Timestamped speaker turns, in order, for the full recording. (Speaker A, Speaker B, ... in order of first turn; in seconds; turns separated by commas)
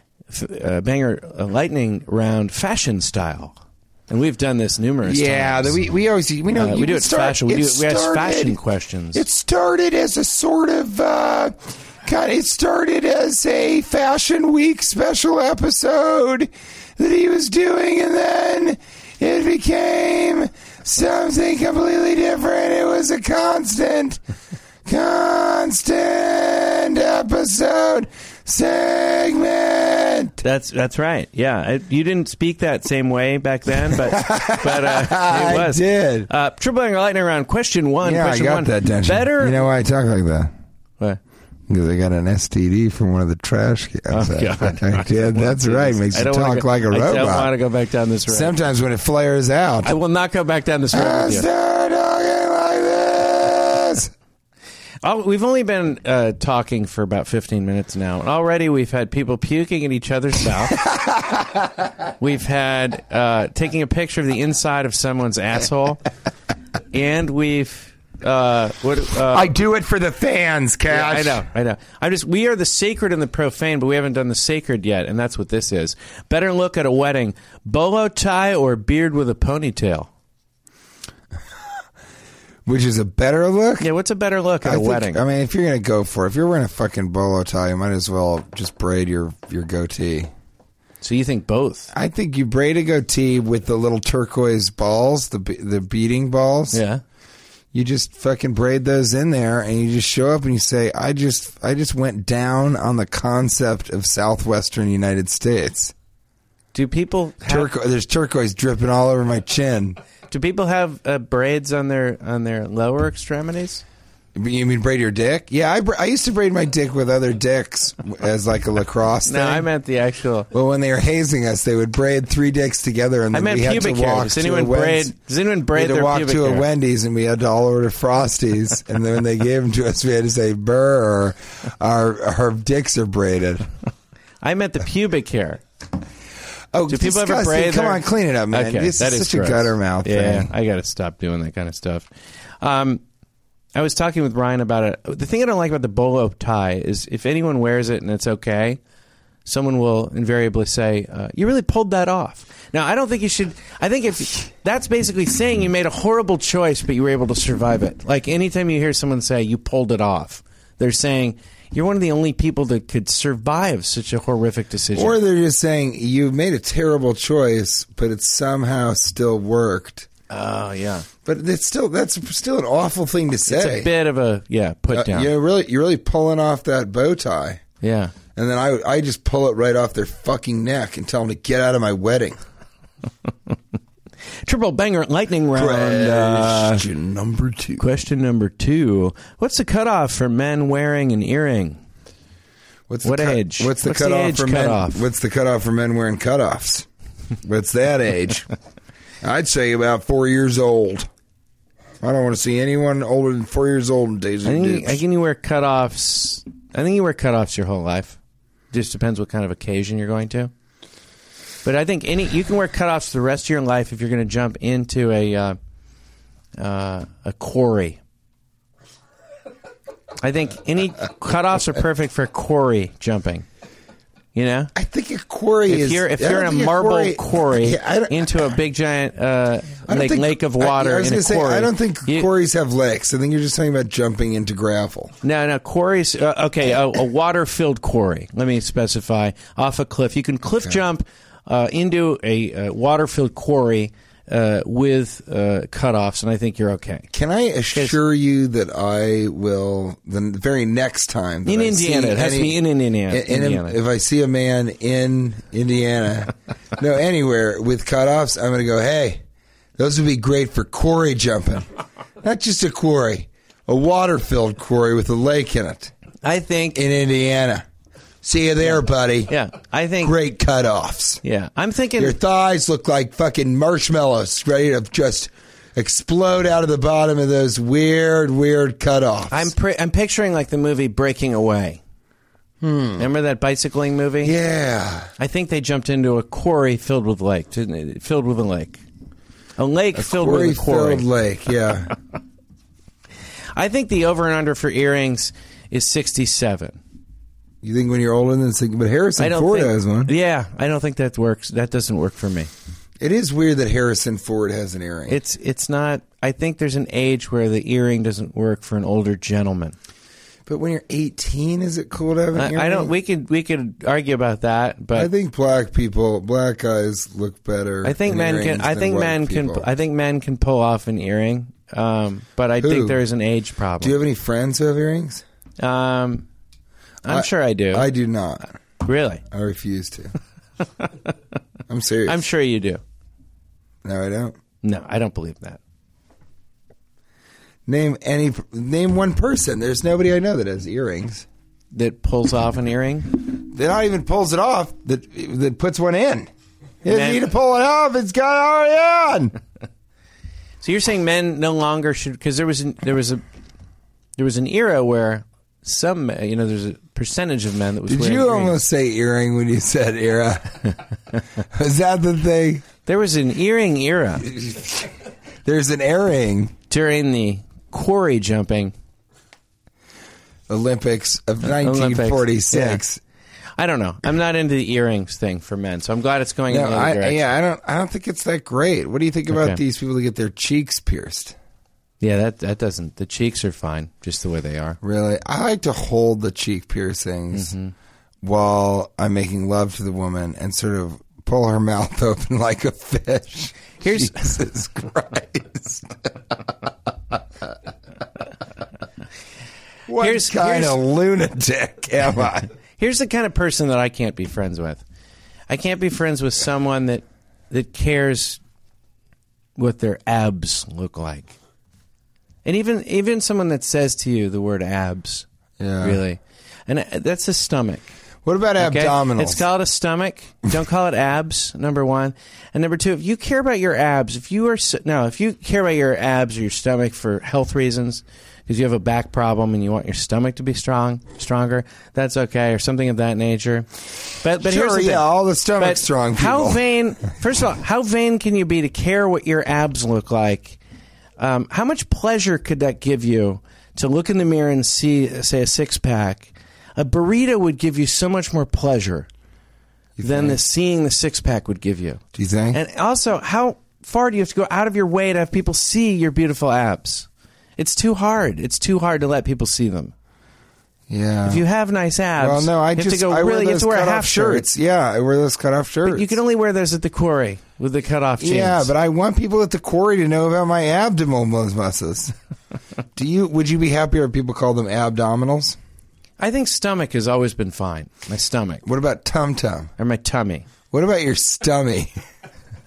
Speaker A: 0.3-3.5, Speaker A: 4.1-5.8, Speaker B: 5.0-8.6, Speaker A: 6.5-9.2, Speaker B: 9.1-24.2, Speaker B: 24.9-30.4, Speaker A: 30.4-39.6, Speaker B: 33.9-36.3, Speaker B: 38.0-40.5, Speaker B: 41.7-47.5, Speaker A: 44.1-48.5, Speaker B: 48.3-49.9, Speaker A: 49.8-51.5, Speaker B: 50.9-54.1, Speaker A: 55.0-60.8, Speaker B: 60.7-61.9, Speaker A: 62.2-66.0, Speaker A: 66.9-69.5, Speaker B: 69.3-71.4, Speaker A: 70.9-80.1, Speaker B: 82.7-83.9, Speaker A: 83.8-85.2, Speaker B: 84.6-90.3, Speaker A: 91.0-91.9, Speaker B: 91.9-96.8, Speaker A: 96.7-97.0, Speaker B: 97.7-105.9, Speaker A: 106.7-107.7, Speaker B: 107.5-110.0, Speaker A: 110.3-113.8, Speaker B: 114.3-119.7, Speaker A: 119.2-120.5, Speaker B: 120.5-125.1, Speaker A: 123.3-126.7, Speaker B: 125.7-133.7, Speaker A: 134.4-135.6, Speaker B: 136.7-140.5, Speaker A: 136.9-142.1, Speaker A: 142.6-143.0, Speaker A: 143.8-148.8, Speaker A: 149.4-165.2, Speaker B: 164.9-170.1, Speaker A: 170.3-171.1, Speaker B: 171.2-173.9, Speaker A: 173.5-175.3, Speaker B: 174.9-177.6, Speaker A: 177.8-178.2, Speaker B: 178.3-182.4, Speaker A: 184.4-186.8, Speaker B: 185.5-187.8, Speaker A: 187.8-191.8, Speaker B: 192.9-196.8, Speaker A: 193.0-195.1, Speaker B: 197.4-198.5, Speaker B: 199.2-201.1, Speaker B: 202.0-205.0, Speaker A: 204.4-208.2, Speaker A: 208.7-210.5, Speaker A: 211.6-215.6, Speaker A: 216.6-218.0, Speaker A: 220.2-223.5, Speaker A: 224.3-224.7, Speaker B: 224.8-228.5, Speaker A: 225.7-232.3, Speaker B: 229.9-235.2, Speaker A: 235.2-247.1, Speaker B: 247.1-259.2, Speaker A: 251.4-253.8, Speaker B: 259.8-261.7, Speaker B: 262.2-265.9, Speaker A: 266.2-266.8, Speaker B: 266.8-267.6, Speaker B: 268.2-269.3, Speaker A: 269.3-270.1, Speaker B: 270.0-271.2, Speaker A: 271.2-272.2, Speaker B: 272.0-279.5, Speaker A: 279.3-281.8, Speaker B: 282.6-283.1, Speaker A: 283.0-284.3, Speaker B: 284.2-285.1, Speaker A: 285.2-288.8, Speaker A: 289.6-291.1, Speaker B: 289.9-291.9, Speaker A: 293.5-296.8, Speaker B: 297.6-300.1, Speaker A: 299.2-302.5, Speaker B: 303.0-305.2, Speaker A: 305.1-309.8, Speaker B: 310.5-312.9, Speaker A: 312.3-315.1, Speaker B: 314.9-319.7, Speaker A: 317.8-323.9, Speaker B: 322.6-323.0, Speaker B: 323.8-325.2, Speaker A: 325.6-326.2, Speaker A: 327.0-327.9, Speaker B: 327.1-328.6, Speaker A: 328.8-329.2, Speaker B: 329.3-330.1, Speaker B: 331.7-332.2, Speaker A: 332.1-332.8, Speaker B: 333.8-334.4, Speaker A: 334.6-335.6, Speaker B: 337.7-341.2, Speaker A: 341.7-343.2, Speaker B: 343.3-346.3, Speaker B: 346.8-349.3, Speaker A: 346.9-347.3, Speaker A: 350.6-353.2, Speaker A: 354.2-358.6, Speaker B: 357.9-360.8, Speaker B: 361.4-362.7, Speaker A: 362.9-364.2, Speaker B: 364.2-364.9, Speaker B: 365.4-366.5, Speaker A: 366.7-368.7, Speaker B: 370.5-373.0, Speaker A: 371.6-372.8, Speaker A: 373.6-377.2, Speaker B: 376.5-381.4, Speaker A: 379.3-379.6, Speaker A: 382.0-384.8, Speaker B: 384.8-387.5, Speaker A: 387.3-387.7, Speaker B: 388.2-396.1, Speaker A: 393.8-394.2, Speaker B: 399.9-402.5, Speaker A: 400.0-400.8, Speaker A: 402.8-404.8, Speaker A: 405.5-408.4, Speaker A: 409.6-411.3, Speaker A: 412.4-415.2, Speaker B: 415.6-416.0, Speaker A: 415.8-417.9, Speaker B: 418.2-419.4, Speaker A: 418.6-440.6, Speaker B: 434.4-436.6, Speaker A: 441.2-449.1, Speaker B: 450.0-450.4, Speaker A: 450.0-459.9, Speaker B: 452.1-452.6, Speaker B: 460.9-461.4, Speaker A: 461.2-464.5, Speaker B: 462.2-466.2, Speaker A: 465.8-468.7, Speaker B: 468.2-472.1, Speaker B: 472.9-475.6, Speaker A: 476.2-478.6, Speaker B: 478.6-479.7, Speaker A: 479.8-480.4, Speaker B: 480.7-481.9